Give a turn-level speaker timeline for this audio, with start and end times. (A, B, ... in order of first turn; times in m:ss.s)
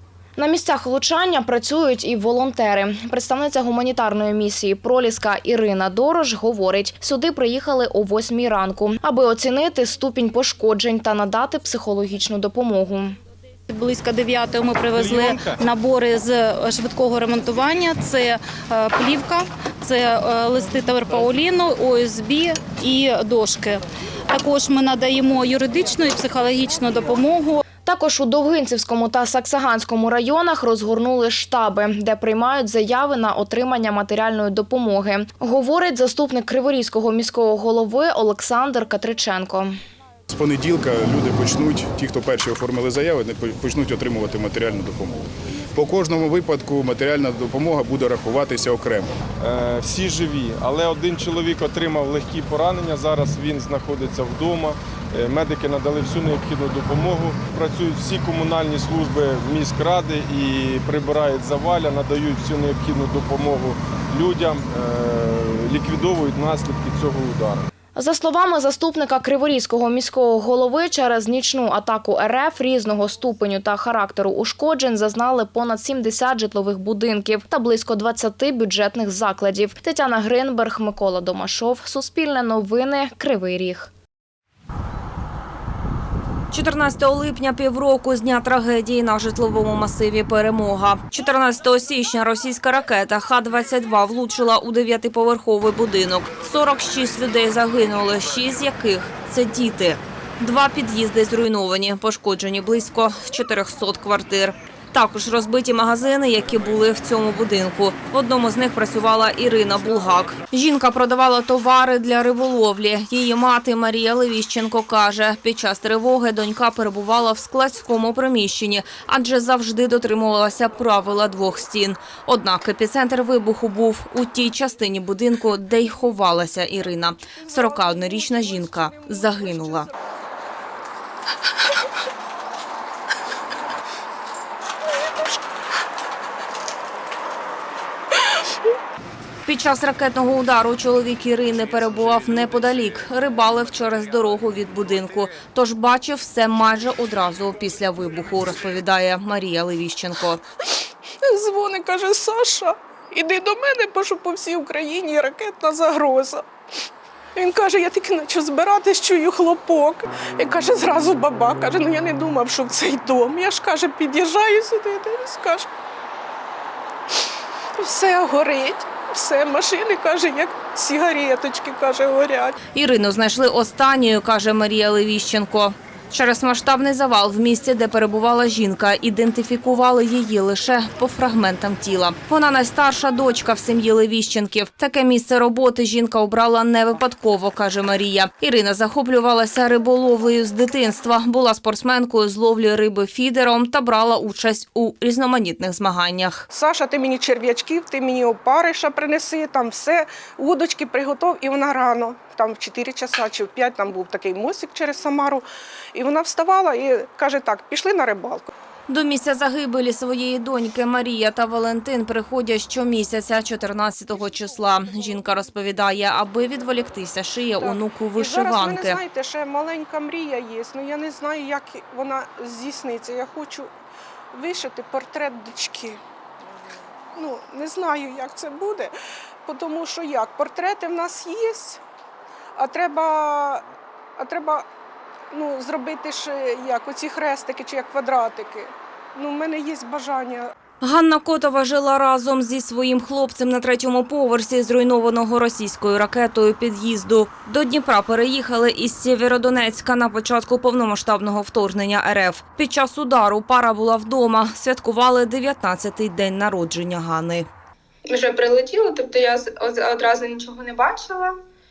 0:00.4-0:13.2 A
0:13.7-0:27.6 B
0:27.8-0:39.7 A
0:40.3-0:45.2 C
0:45.7-0:49.1 C
0:49.4-1:07.6 D
1:08.0-1:23.9 A
1:26.5-2:09.9 E
2:07.7-2:09.8 F
2:19.4-2:30.4 E
2:31.2-2:36.4 F
2:37.3-2:45.7 F
2:47.8-2:52.6 F
2:52.7-3:16.4 E
3:16.5-3:28.5 F
3:28.9-3:39.0 E
3:37.6-3:43.7 F
3:44.3-3:46.0 F
3:47.1-3:48.9 F
3:49.4-3:51.8 F
3:52.6-3:53.6 F
3:54.2-3:54.7 F
3:55.3-4:00.5 F
4:00.8-4:17.5 E
4:18.1-4:21.3 G